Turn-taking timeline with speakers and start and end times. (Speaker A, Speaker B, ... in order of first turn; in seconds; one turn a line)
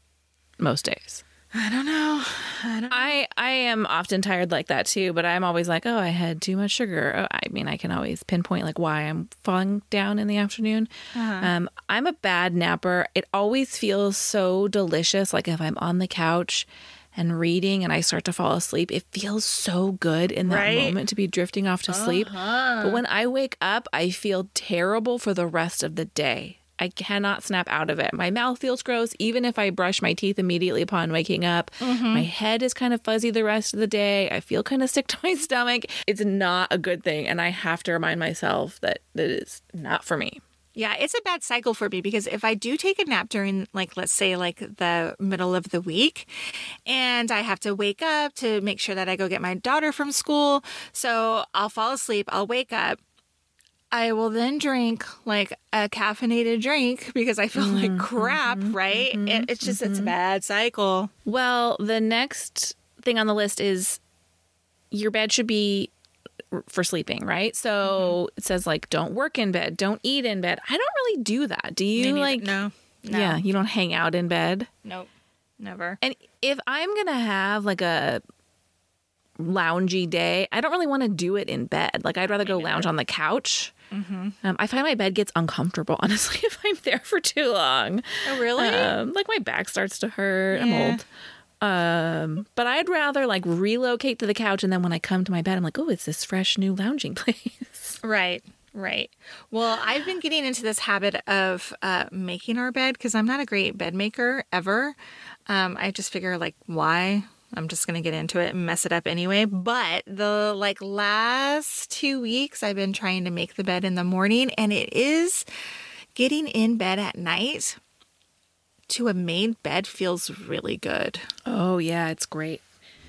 Speaker A: 0.6-1.2
Speaker B: 1.5-3.2
Speaker A: 2.9-40.4
Speaker B: 11.1-11.5
Speaker B: 20.4-20.9
Speaker B: 21.9-23.0
Speaker B: 31.8-32.2
Speaker B: 40.7-53.0
Speaker B: 53.9-61.1
Speaker A: 57.5-60.1
Speaker A: 61.2-64.0
Speaker A: 64.9-65.9
Speaker A: 66.5-72.5
Speaker B: 67.8-68.2
Speaker B: 71.9-73.4
Speaker A: 73.1-74.7
Speaker B: 75.6-76.0
Speaker A: 76.0-78.2
Speaker A: 79.4-83.7
Speaker B: 82.4-82.9
Speaker B: 83.9-84.4
Speaker A: 84.4-91.0
Speaker B: 88.2-89.0
Speaker B: 90.5-91.0
Speaker A: 91.6-98.0
Speaker B: 98.0-105.0
Speaker B: 105.5-115.5
Speaker B: 116.1-117.8
Speaker B: 118.9-121.3
Speaker A: 121.5-122.6